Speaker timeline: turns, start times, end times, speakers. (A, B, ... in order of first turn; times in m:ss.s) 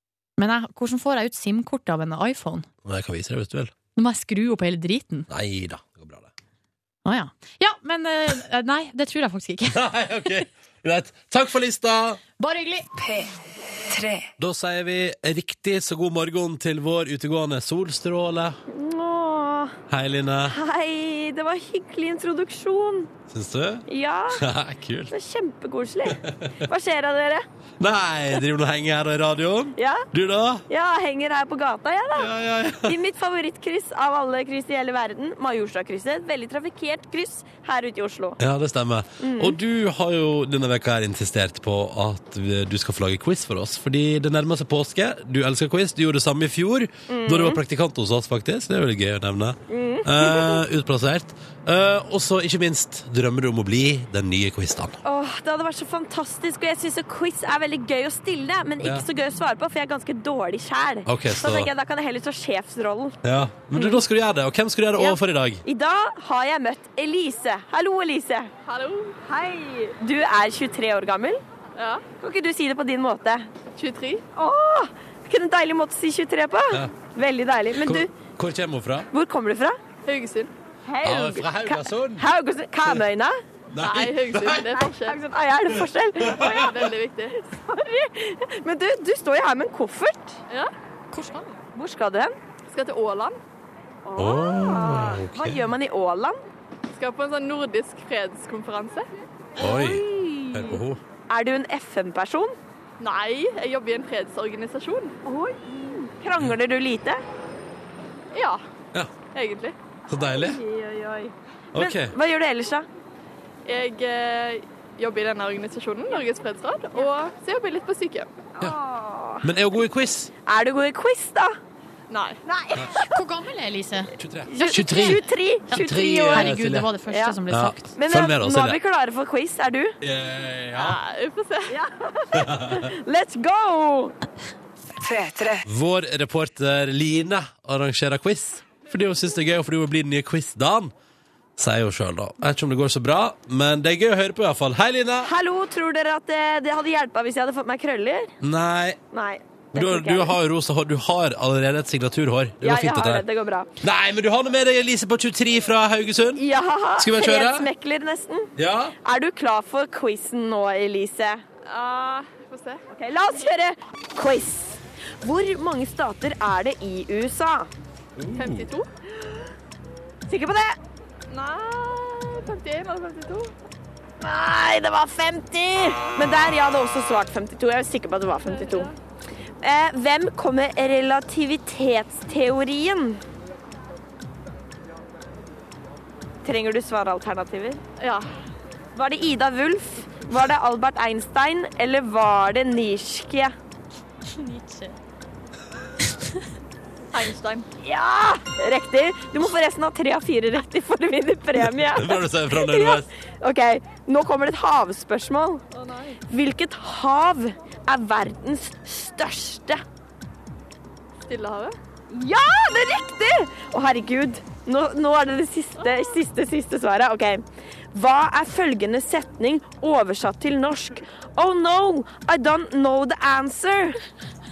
0:00.4-0:02.7 A
0:02.8-0:03.7 B
0:04.0-0:05.3 A
0:05.3-0:06.3 B
0:07.0-0:10.4 A
0:09.7-0:12.2 B
0:12.4-0:12.9 A
0:13.0-0:14.3 C
0:14.4-0:18.6 B
0:18.7-0:19.8 D
0:19.9-0:20.6 B
0:20.5-0:23.1 D
0:23.3-0:25.1 B
0:23.9-0:24.4 D
0:25.1-0:27.4 D
0:26.2-0:26.5 B
0:27.8-0:30.6 B
0:29.8-0:30.0 D
0:30.7-0:32.3 D
0:32.2-0:33.0 B
0:32.8-0:38.4 D
0:38.4-0:55.0 B
0:39.2-0:39.6 D
0:47.1-0:47.6 D
0:49.7-0:50.6 D
0:55.0-1:03.2 D
1:01.1-1:01.7 B
1:03.2-1:05.6 B
1:05.0-1:08.5 D
1:08.7-1:09.2 E
1:09.3-1:11.4 D
1:11.8-1:12.0 E
1:12.2-1:13.5 D
1:13.8-1:14.2 E
1:14.4-1:18.1 D
1:17.8-1:19.1 B
1:19.1-1:19.8 D
1:20.1-1:20.5 E
1:20.9-1:23.4 D
1:21.0-1:22.3 B
1:23.7-1:24.7 B
1:23.8-1:25.2 E
1:24.8-1:26.8 D
1:25.7-1:26.7 B
1:26.5-1:27.5 E
1:27.6-1:30.4 D
1:31.1-1:31.5 A
1:31.7-1:32.4 D
1:32.7-1:33.4 E
1:34.0-1:36.4 D
1:34.2-1:35.6 B
1:36.9-1:39.1 E
1:39.6-1:40.8 D
1:39.6-1:41.0 B
1:41.3-1:42.6 D
1:43.0-1:45.2 E
1:45.2-1:47.2 D
1:48.3-1:48.6 E
1:49.3-1:49.8 E
1:50.1-1:50.6 B
1:50.2-1:52.9 D
1:51.7-1:52.2 B
1:53.7-1:58.3 E
1:58.6-1:59.5 D
1:59.4-2:00.3 B
2:00.5-2:01.5 D
2:02.1-2:02.4 E
2:02.5-2:03.2 D
2:03.0-2:07.9 A
2:04.2-2:06.9 B
2:04.5-2:06.5 D
2:07.1-2:07.4 D
2:07.5-2:08.8 B
2:08.0-2:10.0 D
2:10.0-2:11.0 B
2:10.7-2:11.8 E
2:11.7-2:14.2 D
2:12.4-2:12.8 B
2:15.0-2:15.6 C
2:15.7-2:20.9 B
2:21.6-2:25.3 B
2:25.2-2:28.3 D
2:28.4-2:29.0 B
2:29.1-2:30.4 D
2:29.7-2:33.2 B
2:32.6-2:33.7 D
2:33.8-2:36.4 B
2:36.4-2:38.5 D
2:37.0-2:37.7 B
2:38.6-2:39.0 B
2:39.0-2:41.4 D
2:41.6-2:42.8 E
2:42.9-2:47.7 D
2:48.2-2:48.7 B
2:48.4-2:48.9 E
2:50.3-2:50.8 D
2:51.3-2:53.5 E
2:54.2-2:58.9 D
2:58.4-2:59.0 E
2:59.6-3:03.2 D
3:06.4-3:07.8 D
3:08.0-3:08.3 E
3:09.0-3:13.5 D
3:14.4-3:15.0 A
3:17.1-3:17.7 E
3:17.8-3:25.6 D
3:21.6-3:23.1 B
3:25.7-3:26.2 E
3:26.3-3:29.8 D
3:31.3-3:31.8 E
3:32.1-3:44.0 D